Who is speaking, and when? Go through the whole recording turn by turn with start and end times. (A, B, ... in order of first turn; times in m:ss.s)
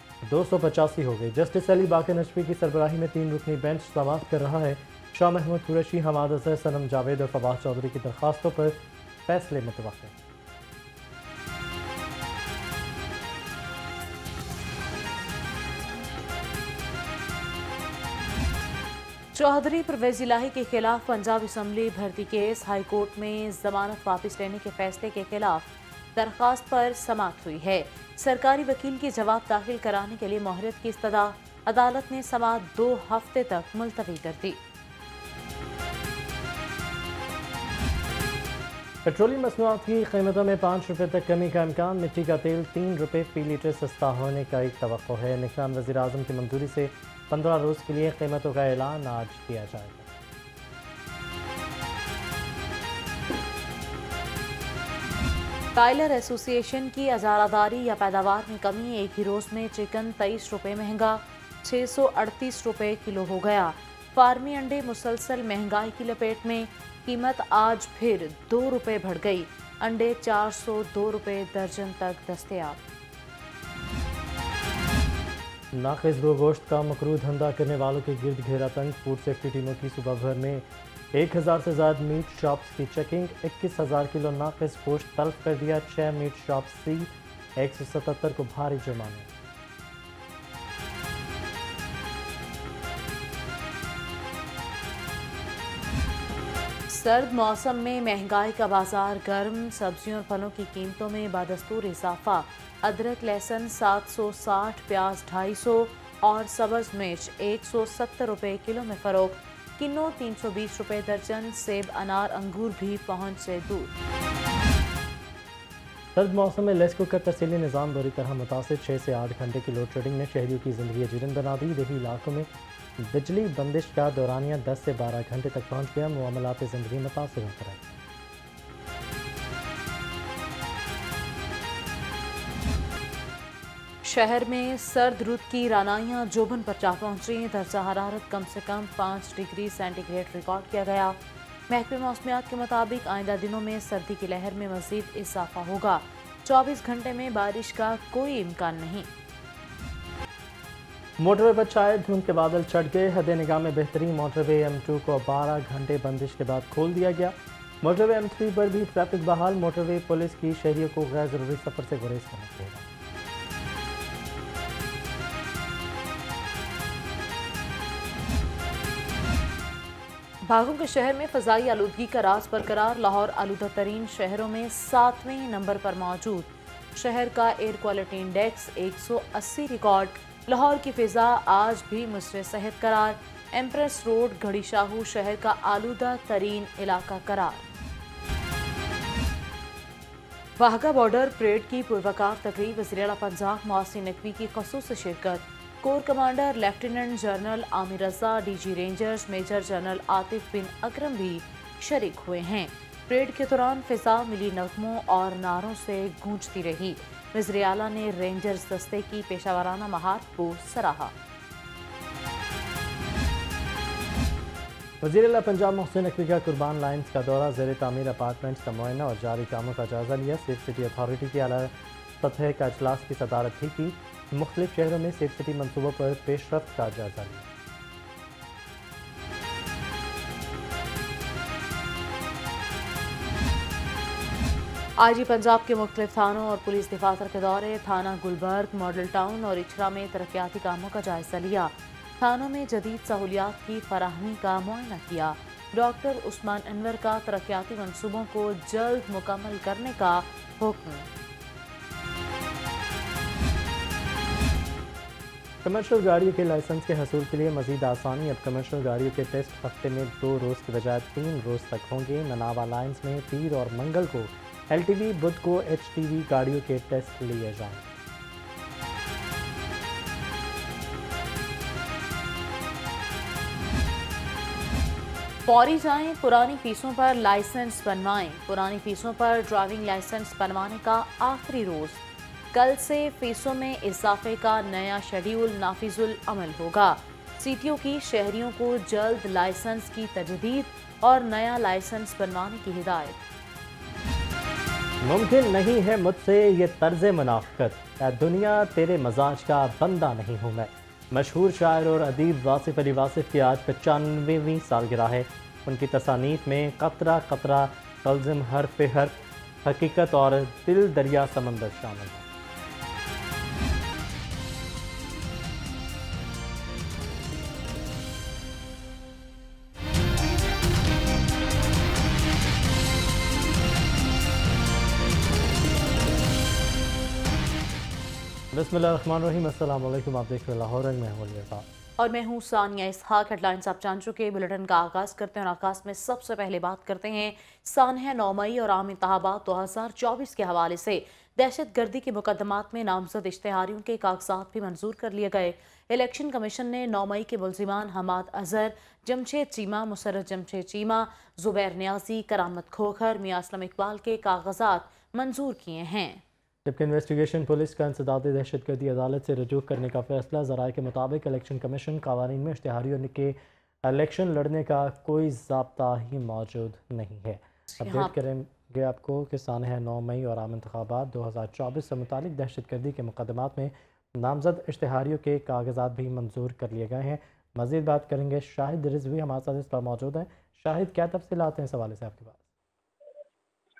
0:00.2-0:10.1 A
0:19.3-0:34.6 B
0:39.0-0:50.1 A
0:55.7-1:12.8 B
1:15.7-1:29.3 A
1:36.9-1:53.9 B
1:56.2-2:02.5 A
2:03.0-2:08.0 A
2:14.0-2:21.2 B
2:21.7-2:29.1 B
2:31.2-2:42.8 A
2:50.4-3:07.7 B
3:10.6-3:31.1 B
3:35.0-3:47.5 A
3:55.0-4:11.1 B
4:15.6-4:28.0 A
4:35.4-4:53.2 B
4:55.0-5:12.2 A
5:28.5-5:31.6 A
5:32.0-5:56.2 B
5:56.6-6:22.4 A
6:07.7-6:08.1 B